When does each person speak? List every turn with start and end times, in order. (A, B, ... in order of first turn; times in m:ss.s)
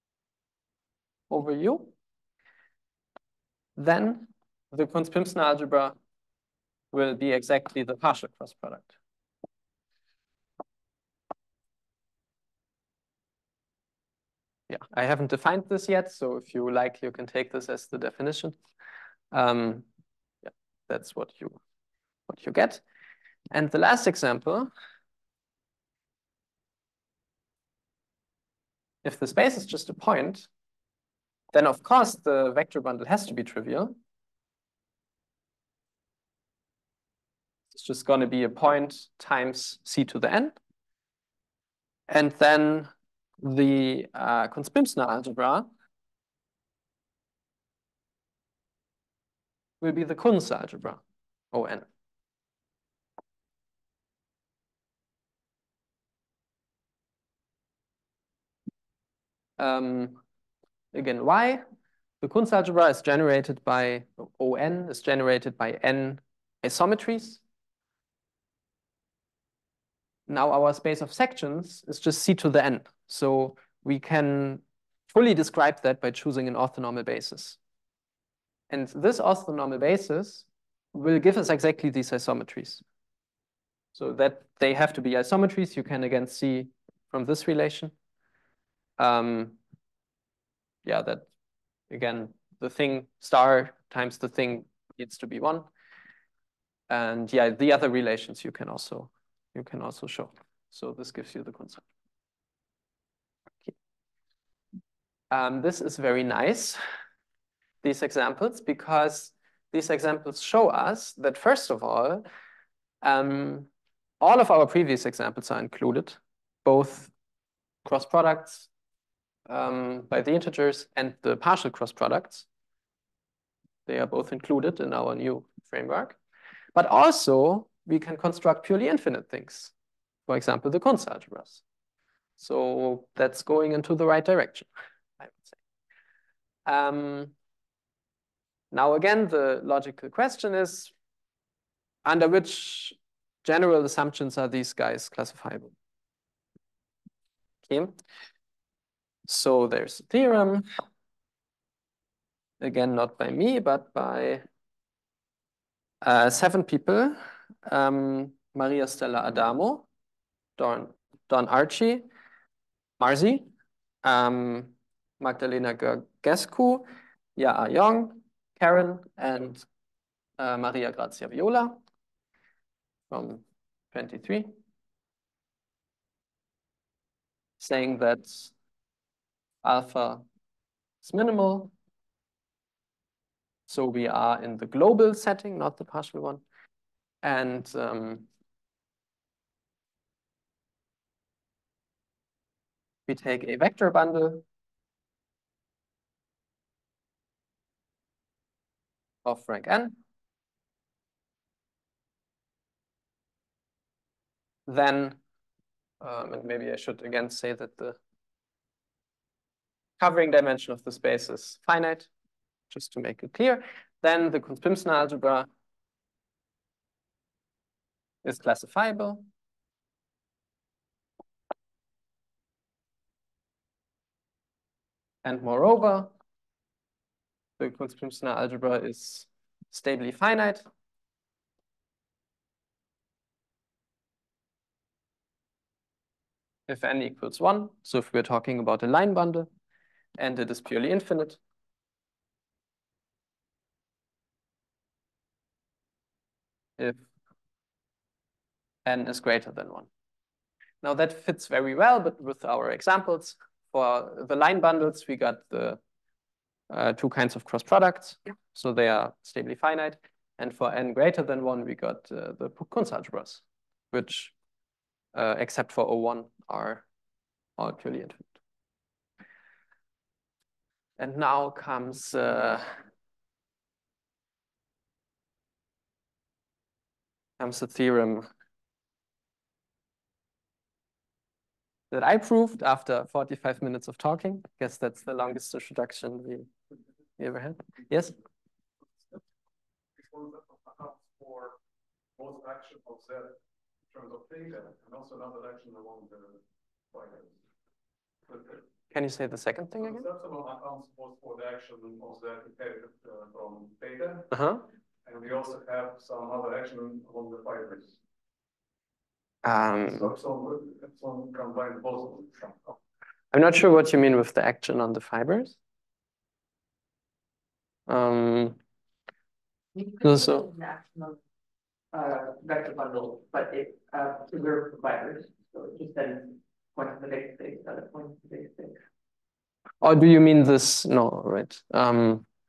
0:01.3-0:01.9 A
0:03.8-0:06.0 A
0:06.9-0:08.9 A
0:14.7-0:18.6 A
0:19.3-0:19.9 A
0:20.4-0:21.6 A
0:22.3-0:22.8 A
0:23.5-0:24.7 A
0:29.0-0:30.5 A
0:31.5-0:34.0 A
0:37.7-0:40.6 A
0:42.1-0:42.9 A
0:43.4-0:45.7 A
0:49.8-0:51.0 A
0:51.5-0:51.8 A
0:59.6-1:00.2 A
1:00.9-1:01.6 A
1:02.2-1:07.4 A
1:10.3-1:17.6 A
1:18.7-1:22.8 A
1:24.0-1:27.9 A
1:29.0-1:29.6 A
1:30.8-1:31.3 A
1:31.9-1:35.7 A
1:36.9-1:41.8 A
1:45.3-1:46.8 A
1:47.8-1:52.2 A
1:53.0-1:53.7 A
1:54.2-1:57.1 A
1:57.8-1:58.7 A
1:59.5-2:02.5 A
2:03.9-2:06.2 A
2:06.8-2:09.7 A
2:10.3-2:11.6 A
2:12.4-2:14.7 A
2:15.2-2:15.6 A
2:16.7-2:17.3 A
2:18.7-2:20.9 A
2:22.0-2:25.7 A
2:27.7-2:28.0 A
2:29.3-2:30.7 A
2:32.6-2:34.4 A
2:36.0-2:39.9 A
2:40.6-2:42.1 A
2:43.0-2:43.5 A
2:44.0-2:49.6 A
2:50.4-2:51.8 A
2:53.1-2:54.6 A
2:57.6-2:58.5 A
2:59.6-3:00.2 A
3:01.0-3:01.7 A
3:03.7-3:06.4 A
3:07.2-3:08.3 A
3:13.1-3:14.4 A
3:19.2-3:20.0 A
3:24.7-3:25.2 A
3:26.0-3:28.0 A
3:30.0-3:32.1 A
3:32.7-3:35.5 A
3:38.2-3:39.3 A
3:45.2-3:46.1 A
3:47.6-3:50.6 A
3:56.7-3:59.5 A
4:00.2-4:01.4 A
4:06.8-4:07.0 A
4:08.8-4:09.9 A
4:10.8-4:15.8 A
4:16.7-4:24.3 A
4:25.1-4:26.8 A
4:27.6-4:28.3 A
4:31.0-4:32.7 A
4:37.4-4:38.3 A
4:41.9-4:46.5 A
4:47.2-4:48.2 A
4:50.0-4:51.6 B
4:52.2-4:57.4 B
4:58.3-4:58.6 B
4:58.9-5:00.1 A
4:59.8-5:04.4 B
5:04.3-5:04.6 A
5:05.0-5:08.0 B
5:09.4-5:10.1 A
5:09.8-5:12.8 B
5:13.3-5:15.6 A
5:17.9-5:18.6 A
5:19.8-5:21.2 C
5:20.0-5:20.5 A
5:21.9-5:28.8 C
5:29.8-5:32.3 A